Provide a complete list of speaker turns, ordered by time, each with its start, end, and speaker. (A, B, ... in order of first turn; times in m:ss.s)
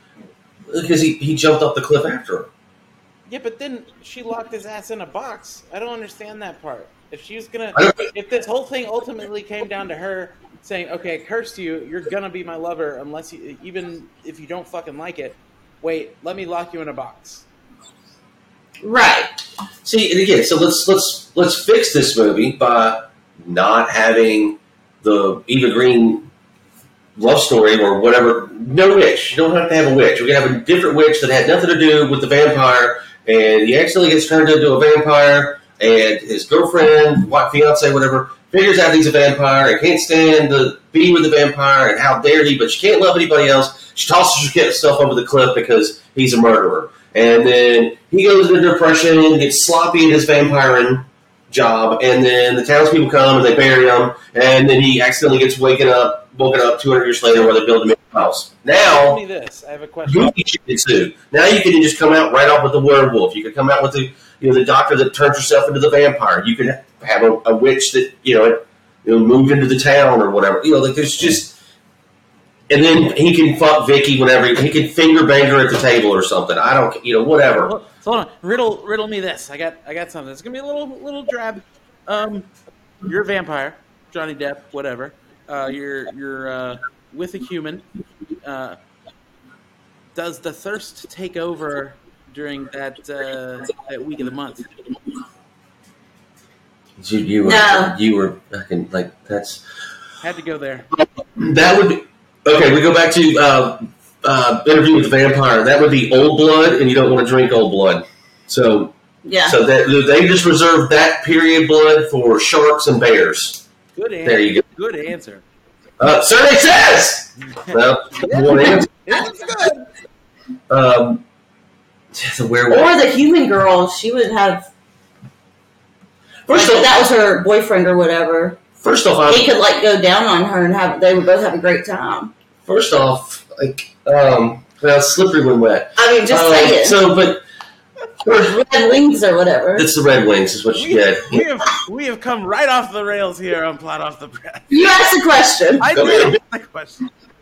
0:00.7-0:02.5 A
0:03.3-0:17.4 B
0:07.7-0:08.1 A
0:18.8-0:19.3 C
0:19.8-0:26.3 A
0:27.2-0:59.2 A
0:58.8-1:00.3 B
1:00.0-1:11.6 A
1:12.7-1:17.7 A
1:17.6-1:22.5 B
1:23.0-1:27.8 B
1:28.4-1:28.8 B
1:30.1-1:34.7 B
1:37.0-1:39.6 A
1:37.4-1:37.9 C
1:40.2-1:40.9 B
1:41.0-1:53.6 A
1:49.2-1:49.6 C
1:53.9-1:55.4 B
1:54.2-1:54.6 A
1:56.0-1:58.9 A
1:57.4-1:59.9 B
2:00.7-2:01.2 A
2:02.1-2:02.9 A
2:02.7-2:04.7 C
2:06.5-2:07.0 A
2:06.5-2:08.6 C
2:08.8-2:09.5 A
2:09.3-2:12.3 C
2:12.6-2:17.4 A
2:16.0-2:17.0 C
2:18.2-2:18.7 A
2:18.4-2:19.9 C
2:19.8-2:21.4 A
2:20.7-2:25.0 B
2:24.7-2:25.9 C
2:25.8-2:27.1 B
2:25.9-2:26.4 A